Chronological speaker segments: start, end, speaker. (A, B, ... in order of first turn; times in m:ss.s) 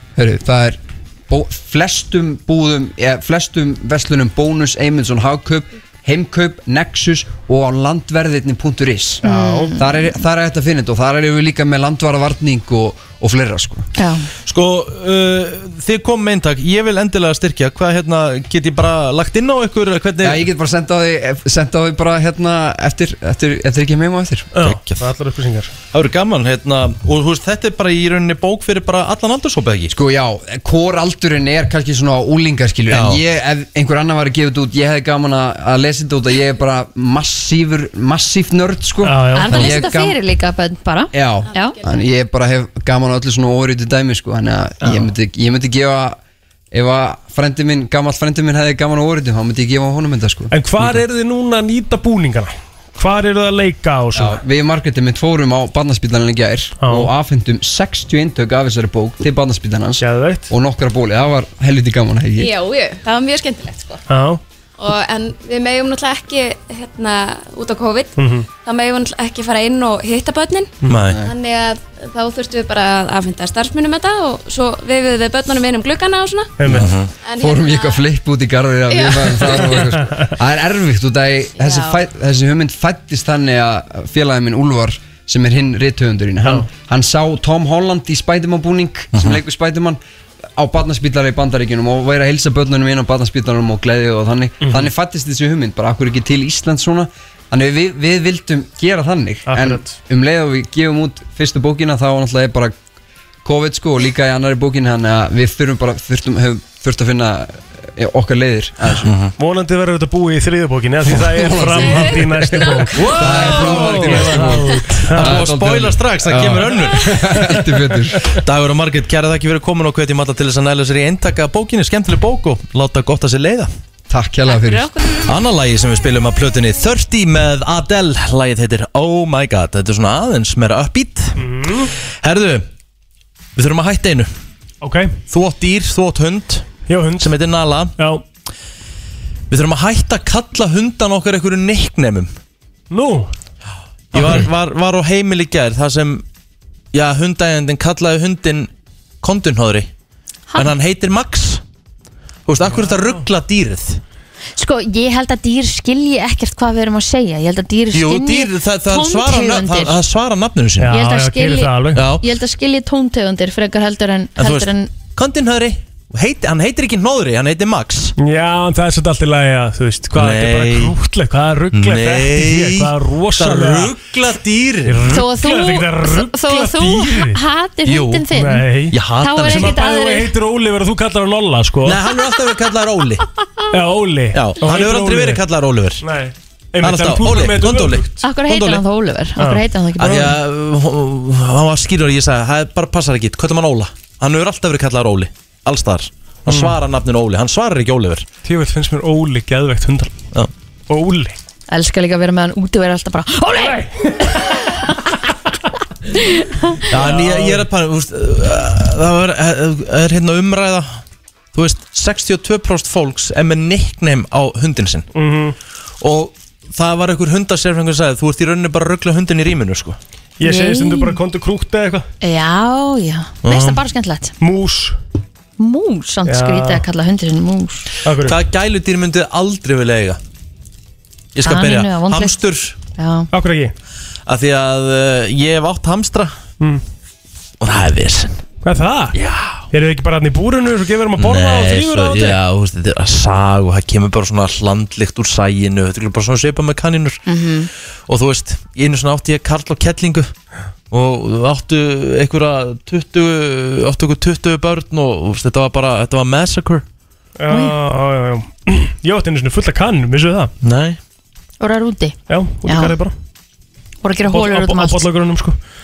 0:00.2-0:09.2 A
0:09.2-0:09.8 B
0:09.3-0:09.7 C
0:09.8-0:13.9 A
0:14.0-0:14.3 B
0:14.5-0:20.4 D
0:20.2-0:24.6 A
0:24.5-0:25.7 C
0:24.6-0:25.0 D
0:25.9-0:29.9 D
0:29.9-0:40.2 A
0:32.9-0:33.2 D
0:39.0-0:39.7 C
0:39.4-0:41.8 B
0:41.1-0:46.2 A
0:41.5-0:42.0 E
0:44.8-0:45.1 C
0:46.7-0:51.0 A
0:50.5-0:54.4 C
0:54.2-1:02.5 A
0:56.8-0:57.1 C
1:00.0-1:00.5 C
1:02.4-1:04.0 E
1:04.1-1:04.4 C
1:04.8-1:16.6 E
1:08.2-1:08.5 C
1:10.9-1:11.2 D
1:16.6-1:16.9 C
1:16.7-1:17.1 D
1:17.2-1:18.0 E
1:17.4-1:30.0 A
1:18.9-1:19.8 E
1:20.1-1:20.3 C
1:21.6-1:22.0 E
1:29.1-1:29.4 D
1:30.6-1:42.7 A
1:34.6-1:34.9 C
1:39.5-1:40.0 C
1:43.4-1:49.1 A
1:49.0-1:49.3 D
1:49.4-1:55.5 C
1:51.1-1:58.3 A
1:53.0-1:57.5 D
1:58.2-2:03.7 D
2:04.1-2:04.9 A
2:04.5-2:05.2 E
2:05.2-2:11.4 D
2:11.4-2:11.9 C
2:12.1-2:12.7 D
2:13.6-2:14.3 D
2:14.8-2:15.2 C
2:15.3-2:18.0 D
2:16.9-2:17.3 C
2:18.0-2:18.2 C
2:19.5-2:22.3 D
2:22.9-2:23.3 C
2:24.1-2:26.2 D
2:24.1-2:24.5 C
2:26.9-2:28.7 D
2:29.2-2:29.9 D
2:30.6-2:31.6 D
2:32.5-2:34.0 D
2:32.7-2:33.2 C
2:34.6-2:40.0 B
2:37.9-2:41.0 D
2:40.8-2:42.1 C
2:40.9-2:44.9 B
2:41.9-2:42.2 D
2:44.4-2:48.2 D
2:48.2-2:54.0 C
2:50.1-2:51.0 D
2:51.7-2:55.1 D
2:54.9-2:57.4 C
2:55.1-2:58.7 B
2:57.9-2:58.3 D
2:58.3-3:02.0 C
2:58.9-2:59.8 D
2:59.2-3:00.3 B
3:01.8-3:03.3 D
3:03.7-3:05.4 C
3:04.3-3:06.0 D
3:06.0-3:08.2 C
3:06.8-3:08.8 D
3:08.2-3:10.4 B
3:09.4-3:09.6 C
3:10.0-3:18.3 D
3:16.5-3:16.8 C
3:18.4-3:20.1 C
3:20.9-3:21.4 C
3:21.7-3:23.9 B
3:26.3-3:26.8 B
3:26.8-3:27.7 C
3:26.9-3:31.0 D
3:31.5-3:35.1 D
3:35.2-3:35.6 C
3:36.0-3:40.0 D
3:40.4-3:42.1 C
3:40.4-3:41.2 B
3:42.2-3:44.3 B
3:43.4-3:43.8 D
3:44.4-3:45.0 C
3:45.6-3:47.9 B
3:46.3-3:46.8 C
3:48.0-3:48.4 C
3:48.2-3:50.2 D
3:51.4-3:52.8 D
3:51.4-3:52.4 B
3:53.0-3:53.3 B
3:53.3-3:53.7 C
3:54.3-3:56.3 D
3:57.6-3:58.4 D
3:58.6-3:59.2 C
3:59.2-3:59.6 D
3:59.7-4:02.4 C
4:01.2-4:07.2 D
4:07.3-4:07.7 B
4:08.1-4:10.3 D
4:10.9-4:16.8 D
4:17.4-4:20.5 C
4:17.5-4:17.8 B
4:20.6-4:21.0 D
4:21.6-4:22.9 B
4:22.3-4:23.1 C
4:24.0-4:25.0 B
4:24.3-4:25.6 C